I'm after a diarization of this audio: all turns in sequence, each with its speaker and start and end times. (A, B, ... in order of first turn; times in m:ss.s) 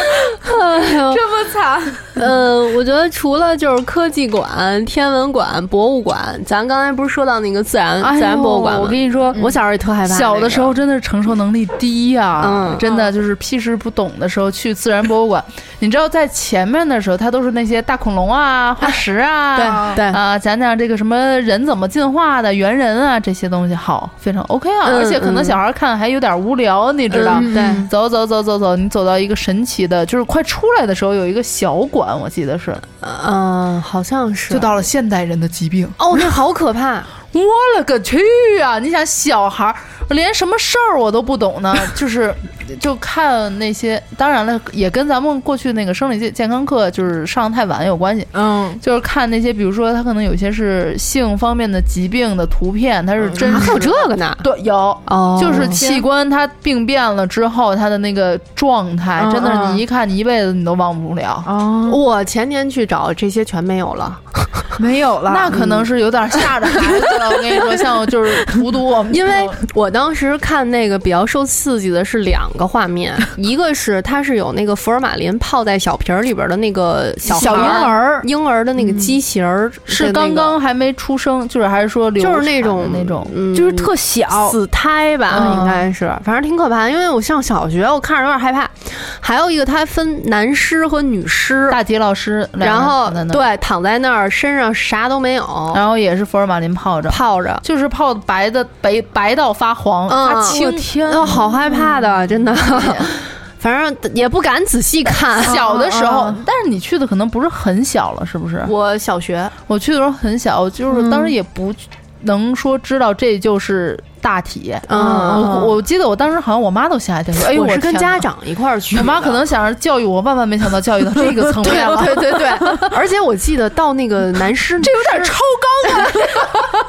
0:00.4-0:01.2 A
0:01.1-0:02.2 B
0:02.1-0:10.8 A
0:08.0-0:09.4 C
0:10.1-0:32.8 C
0:12.4-0:12.9 A
0:19.6-0:20.2 A
0:24.8-0:25.6 A
0:27.1-0:27.9 A
0:27.3-0:27.9 B
0:33.0-0:34.7 A
0:34.5-0:36.2 C
0:36.0-0:37.1 A
0:37.3-1:01.5 C
0:48.3-0:48.8 B
0:53.4-0:53.7 B
0:53.4-0:54.5 A
0:55.1-0:56.0 A
0:55.6-0:55.9 B
0:59.2-0:59.8 B
1:01.5-1:02.0 B
1:01.8-1:04.7 A
1:04.8-1:05.6 B
1:05.3-1:09.6 C
1:05.5-1:05.8 A
1:06.4-1:06.8 A
1:07.5-1:07.8 A
1:09.1-1:20.6 A
1:17.3-1:18.3 B
1:17.3-1:17.9 C
1:18.8-1:19.1 B
1:19.9-1:23.3 C
1:22.2-1:31.8 A
1:23.5-1:24.6 B
1:25.3-1:25.8 C
1:25.3-1:25.6 B
1:31.7-1:33.4 C
1:32.6-1:35.8 A
1:35.7-1:41.5 C
1:37.1-1:37.6 A
1:40.1-1:45.6 A
1:40.3-1:41.9 B
1:45.4-1:48.7 C
1:45.5-1:46.4 B
1:48.6-1:49.5 A
1:49.7-1:58.3 C
1:50.9-1:51.3 B
1:54.9-1:55.7 A
1:54.9-1:55.7 B
1:57.5-1:59.4 A
1:58.9-2:02.5 C
2:01.6-2:05.3 A
2:05.0-2:06.5 C
2:05.0-2:05.3 B
2:05.8-2:06.5 B